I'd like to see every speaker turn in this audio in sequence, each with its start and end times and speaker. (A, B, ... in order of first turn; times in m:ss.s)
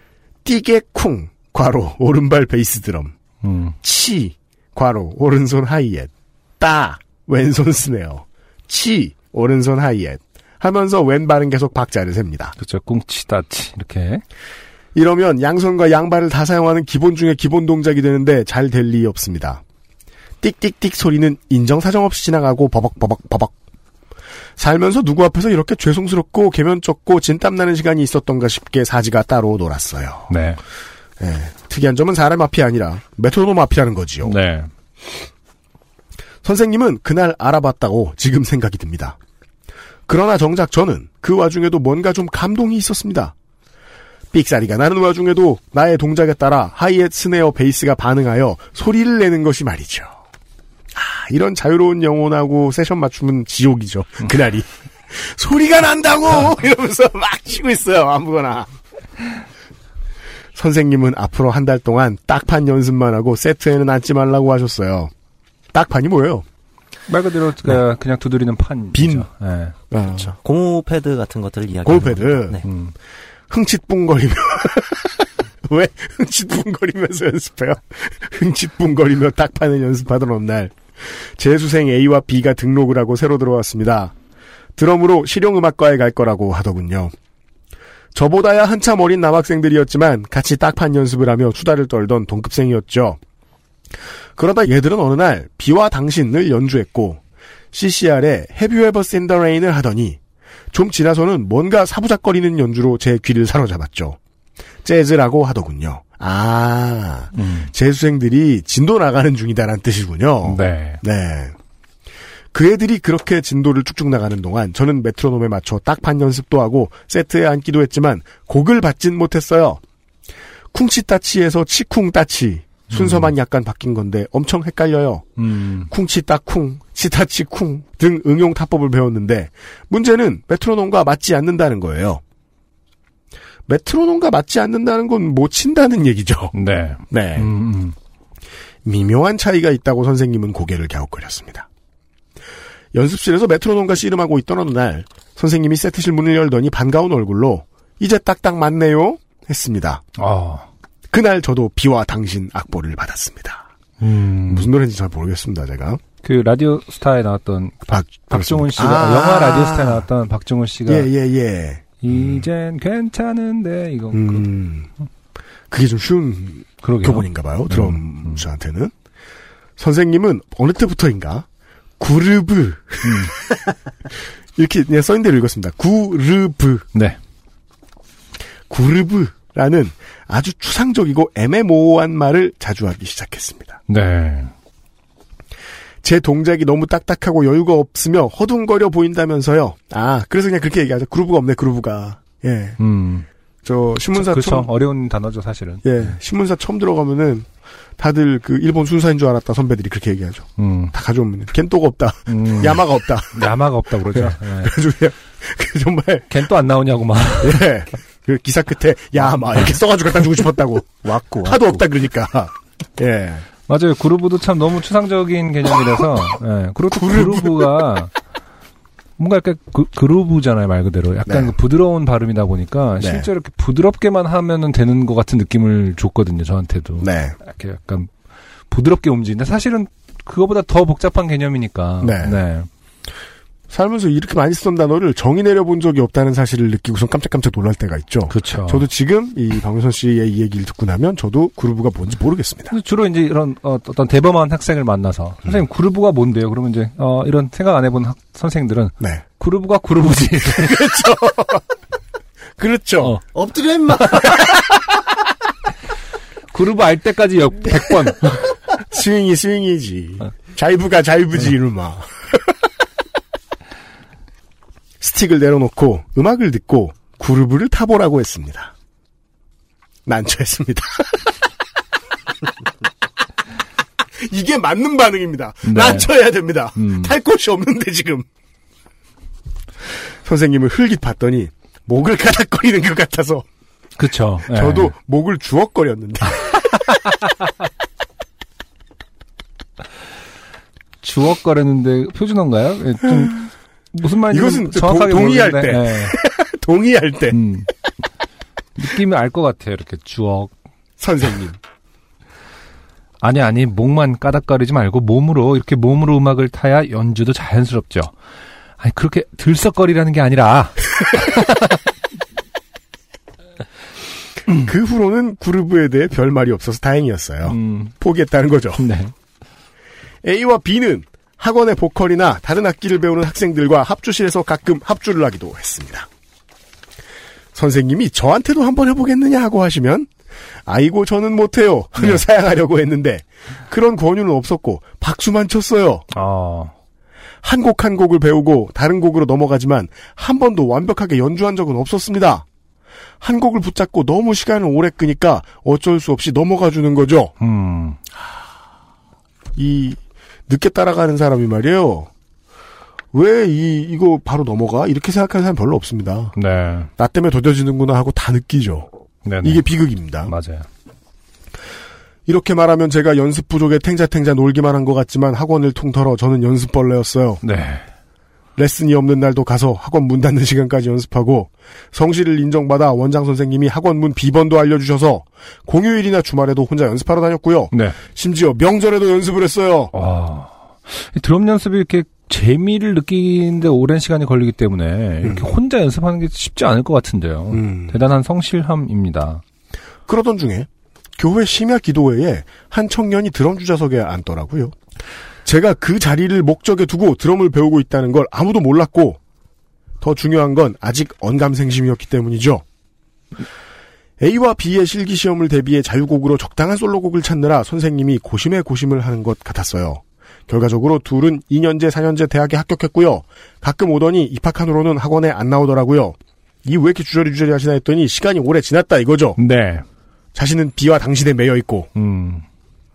0:00.4-0:03.1 A
0:03.4-0:03.8 B
0:03.8-0:12.6 A
0:12.6-0:14.2 B
0:14.9-0:19.6 A
0:20.4-0:23.5 A
0:24.6-0:30.3 A
0:30.3-0:30.6 B
0:31.2-0:34.4 A
0:34.2-0:34.7 B
0:36.4-0:39.2 A
0:40.1-0:43.3 A
0:44.3-0:50.1 A
0:50.9-0:58.7 A
1:00.6-1:05.1 A
1:05.7-1:06.4 A
1:07.1-1:09.8 B
1:08.9-1:09.3 A
1:09.9-1:10.3 A
1:10.1-1:12.6 C
1:11.8-1:12.6 A
1:12.6-1:12.9 B
1:13.5-1:24.1 A
1:24.8-1:27.1 A
1:28.1-1:33.2 A
1:34.4-1:37.2 A
1:37.7-1:40.2 A
1:40.7-1:44.2 A
1:44.8-1:51.5 A
1:47.3-1:47.7 B
1:50.4-1:51.0 B
1:52.5-1:59.8 A
2:00.7-2:05.3 A
2:02.9-2:03.3 B
2:05.4-2:05.9 B
2:05.9-2:12.2 A
2:13.7-2:16.5 A
2:16.5-2:18.0 B
2:17.1-2:17.5 A
2:18.8-2:21.7 A
2:22.9-2:30.0 A
2:30.2-2:30.7 B
2:31.1-2:33.7 A
2:34.0-2:34.7 B
2:34.5-2:36.0 A
2:36.2-2:41.1 B
2:37.9-2:40.0 A
2:40.9-2:42.4 A
2:42.0-2:44.5 B
2:44.1-2:44.9 A
2:45.7-2:48.9 A
2:46.8-2:48.4 B
2:49.8-2:51.5 A
2:52.0-2:53.5 A
2:53.0-2:53.3 B
2:54.6-2:56.9 A
2:58.7-3:03.8 A
3:03.9-3:04.5 B
3:06.0-3:12.8 A
3:12.8-3:13.2 B
3:13.6-3:14.7 A
3:14.1-3:16.1 B
3:15.8-3:23.5 A
3:20.6-3:20.9 B
3:22.3-3:24.8 B
3:24.1-3:26.4 A
3:26.3-3:27.6 B
3:27.4-3:33.4 A
3:31.0-3:31.8 C
3:33.7-3:38.1 B
3:36.9-3:37.7 A
3:39.2-3:48.1 B
3:41.3-3:41.5 A
3:43.0-3:43.3 A
3:47.0-3:47.4 A
3:48.7-3:52.7 B
3:52.0-3:52.4 A
3:53.7-4:02.7 A
3:58.3-3:58.9 B
4:02.7-4:10.9 B
4:10.5-4:11.6 A
4:12.6-4:13.2 A
4:13.3-4:14.4 C
4:14.3-4:14.6 A
4:16.5-4:18.5 B
4:18.8-4:22.4 A
4:25.0-4:28.7 A
4:30.0-4:31.3 A
4:34.2-4:38.2 A
4:35.6-4:36.1 B
4:36.8-4:37.1 B
4:40.2-4:43.4 A
4:44.0-4:44.9 B
4:44.5-4:46.8 A
4:51.0-4:56.2 B
4:54.3-4:57.4 A
4:57.3-4:57.7 B
4:58.8-5:00.5 B
5:01.0-5:01.6 A
5:03.2-5:08.1 B
5:08.8-5:11.8 B
5:14.6-5:18.8 A
5:17.5-5:17.9 B
5:18.8-5:19.1 B
5:20.2-5:26.1 A
5:27.5-5:30.1 A
5:30.6-5:36.0 A
5:36.1-5:36.7 B
5:37.4-5:42.4 A
5:43.2-5:47.3 A
5:47.4-5:48.0 B
5:49.6-5:52.1 A
5:53.1-5:56.4 A
5:56.4-5:56.9 B
5:57.0-5:58.9 A
5:59.2-5:59.6 B
5:59.4-6:00.3 A
6:00.2-6:00.6 B
6:02.2-6:07.4 A
6:07.4-6:07.8 B
6:08.6-6:19.9 A
6:17.7-6:18.0 B
6:19.9-6:29.4 B
6:27.5-6:27.9 A
6:30.1-6:34.8 A
6:35.4-6:39.2 A
6:40.0-6:42.6 A
6:44.2-6:59.4 A
6:59.4-6:59.8 B
7:00.4-7:01.9 A
7:01.9-7:02.4 B